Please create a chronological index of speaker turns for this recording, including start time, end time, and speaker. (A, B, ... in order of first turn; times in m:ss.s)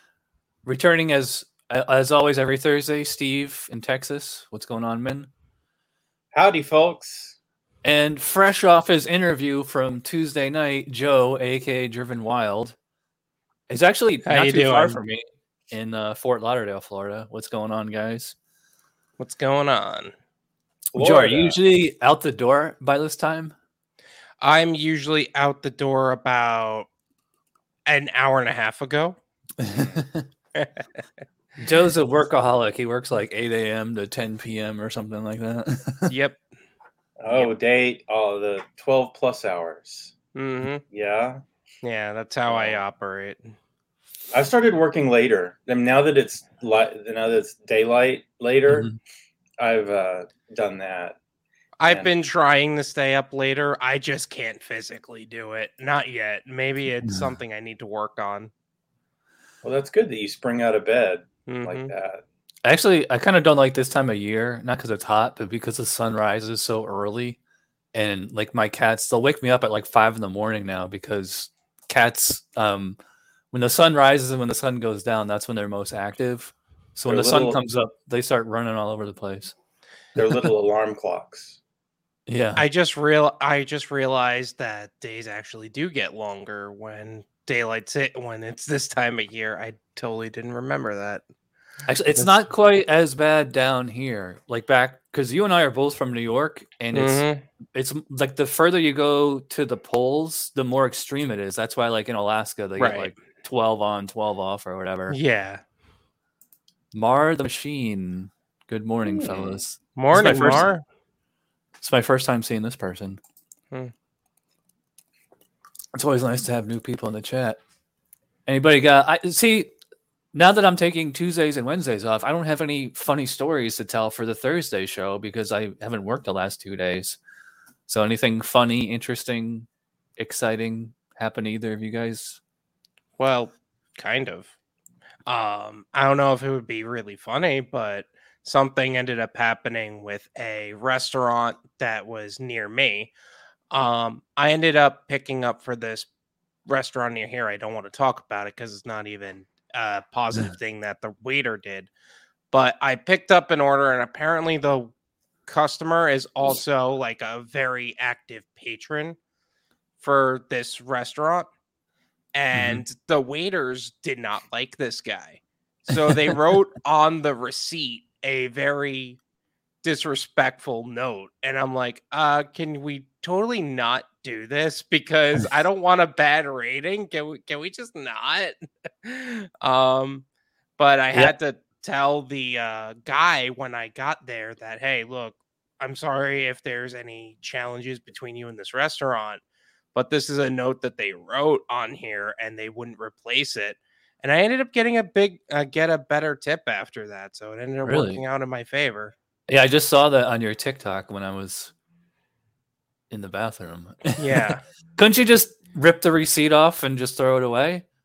0:00.6-0:05.3 A
0:06.3-0:07.4 B
0:07.8-0:12.8 A
0:13.7-0:18.4 A
0:14.3-0:15.0 C
0:19.2-0:20.1 C
0:20.9-0:21.6 B
0:20.9-0:23.5 A
0:24.4-0:26.9 C
0:27.9-0:29.2 C
0:29.6-0:30.3 A
0:30.5-0:30.8 C
0:31.6-0:36.1 A
0:36.1-0:36.4 C
0:37.2-0:40.1 B
0:40.3-0:40.8 C
0:40.9-0:41.4 B
0:41.8-0:43.5 C
0:42.4-0:42.8 B
0:44.3-0:48.9 B
0:48.7-0:49.0 A
0:49.6-0:51.2 B
0:51.8-0:58.5 C
0:59.6-1:02.2 B
1:01.5-1:01.9 C
1:02.6-1:07.4 A
1:07.9-1:13.0 A
1:13.5-1:19.5 A
1:17.1-1:17.6 B
1:20.2-1:21.6 B
1:22.3-1:22.6 A
1:22.6-1:31.2 C
1:31.9-1:45.2 A
1:36.9-1:37.4 C
1:42.8-1:43.1 C
1:45.1-1:45.6 C
1:46.9-1:50.7 A
1:49.0-1:49.6 B
1:50.0-1:50.8 C
1:51.8-1:53.2 A
1:55.9-1:57.6 A
1:58.5-1:59.7 A
2:00.3-2:07.2 A
2:07.9-2:12.4 A
2:13.2-2:14.5 C
2:15.3-2:23.1 C
2:23.7-2:26.1 C
2:26.7-2:31.9 C
2:32.5-2:34.9 C
2:35.5-2:39.2 C
2:40.0-2:41.5 C
2:42.3-2:49.2 C
2:42.5-2:42.8 A
2:45.9-2:46.2 A
2:49.8-3:00.2 C
3:00.8-3:09.4 C
3:09.9-3:19.1 C
3:17.8-3:18.2 A
3:19.5-3:21.7 A
3:23.1-3:27.8 A
3:24.2-3:24.6 C